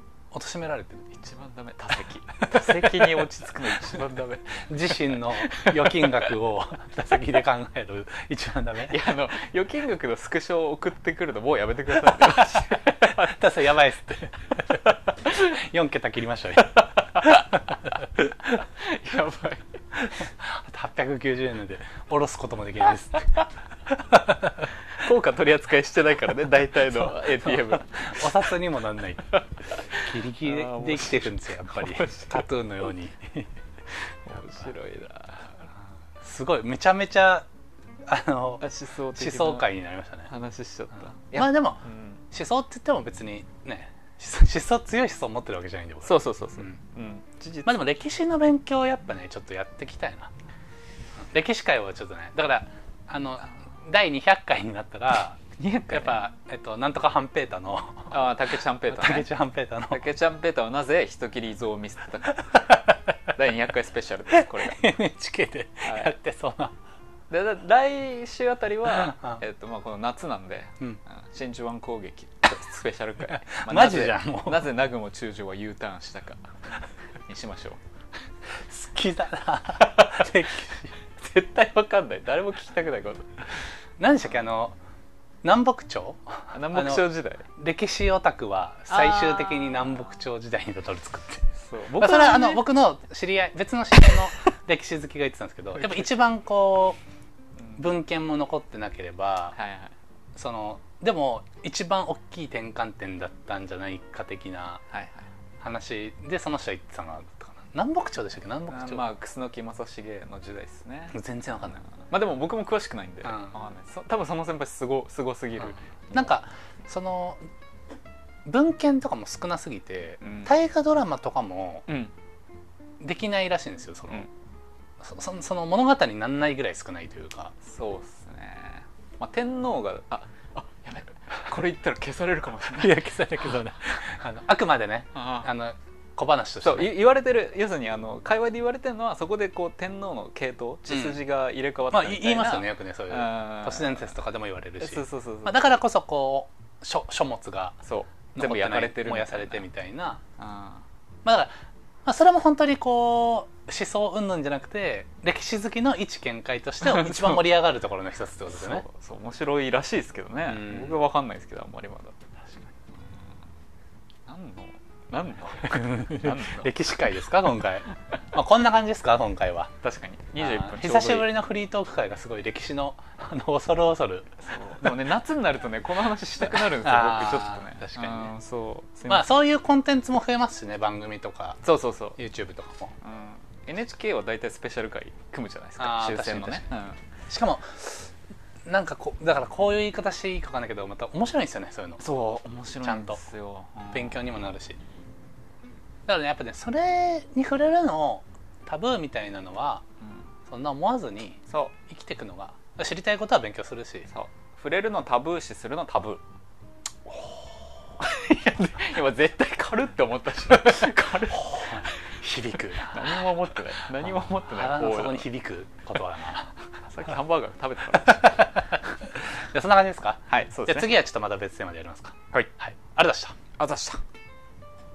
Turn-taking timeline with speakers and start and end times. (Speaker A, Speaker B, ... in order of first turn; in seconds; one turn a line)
Speaker A: 0.3-1.1
Speaker B: 1.1-6.3
Speaker A: 4.1-9.0
Speaker B: 8.9-13.4
Speaker A: 12.3-17.9
Speaker B: 17.1-17.4
Speaker B: 18.5-19.7
Speaker A: 20.0-23.4
Speaker A: 23.9-24.7
Speaker B: 24.9-28.3
Speaker A: 27.0-33.5
Speaker B: 29.3-32.5
Speaker B: 34.2-35.5
Speaker A: 36.2-37.5
Speaker A: 38.1-40.3
Speaker B: 38.6-39.6
Speaker B: 40.3-42.2
Speaker A: 41.3-46.8
Speaker B: 46.0-47.9
Speaker A: 47.6-50.3
Speaker A: 51.3-58.2
Speaker B: 55.6-56.2
Speaker B: 58.1-59.3
Speaker A: 58.9-60.0
Speaker B: 59.9-64.9
Speaker A: 62.7-63.0
Speaker A: 64.3-66.7
Speaker B: 65.8-66.1
Speaker B: 67.3-76.5
Speaker A: 68.9-69.4
Speaker A: 73.3-74.7
Speaker B: 77.2-77.8
Speaker A: 78.7-80.9
Speaker B: 79.9-80.3
Speaker B: 81.2-83.4
Speaker A: 84.0-84.8
Speaker A: 85.4-97.0
Speaker B: 86.5-87.5
Speaker B: 88.9-90.0
Speaker B: 91.5-92.7
Speaker A: 97.8-99.5
Speaker B: 99.5-99.9
Speaker A: 100.3-104.8
Speaker B: 104.9-105.3
Speaker A: 105.6-109.0
Speaker B: 108.7-111.2
Speaker A: 111.1-111.8
Speaker B: 112.0-116.3
Speaker A: 113.2-113.5
Speaker A: 116.1-117.4
Speaker A: 118.5-121.9
Speaker B: 120.2-120.5
Speaker B: 121.9-122.1
Speaker A: 123.0-124.3
Speaker A: 125.0-127.5
Speaker B: 127.6-133.0
Speaker A: 132.7-136.9
Speaker B: 135.1-135.5
Speaker B: 136.6-144.1
Speaker A: 140.9-141.2
Speaker A: 141.9-147.8
Speaker B: 144.8-145.6
Speaker B: 147.8-149.6
Speaker A: 148.3-150.2
Speaker B: 150.4-150.8
Speaker A: 151.2-151.5
Speaker A: 152.0-158.8
Speaker B: 156.8-157.5
Speaker B: 158.5-162.2
Speaker A: 160.4-161.0
Speaker B: 164.2-166.7
Speaker A: 165.6-169.7
Speaker B: 169.8-171.3
Speaker A: 170.4-174.4
Speaker B: 174.4-179.4
Speaker A: 176.4-178.3
Speaker A: 179.1-181.6
Speaker B: 181.6-182.2
Speaker A: 182.2-182.9
Speaker B: 183.0-187.0
Speaker A: 185.8-186.7
Speaker A: 187.3-188.1
Speaker A: 188.7-192.0
Speaker B: 192.0-194.4
Speaker A: 192.8-193.2
Speaker A: 193.9-194.8
Speaker A: 196.1-199.8
Speaker A: 200.5-204.1
Speaker B: 201.5-201.7
Speaker B: 204.1-206.2
Speaker B: 208.0-212.0
Speaker A: 211.3-213.3
Speaker B: 212.7-215.3
Speaker A: 214.3-216.5
Speaker B: 216.8-218.6
Speaker A: 218.1-223.3
Speaker B: 220.3-221.0
Speaker B: 223.6-224.0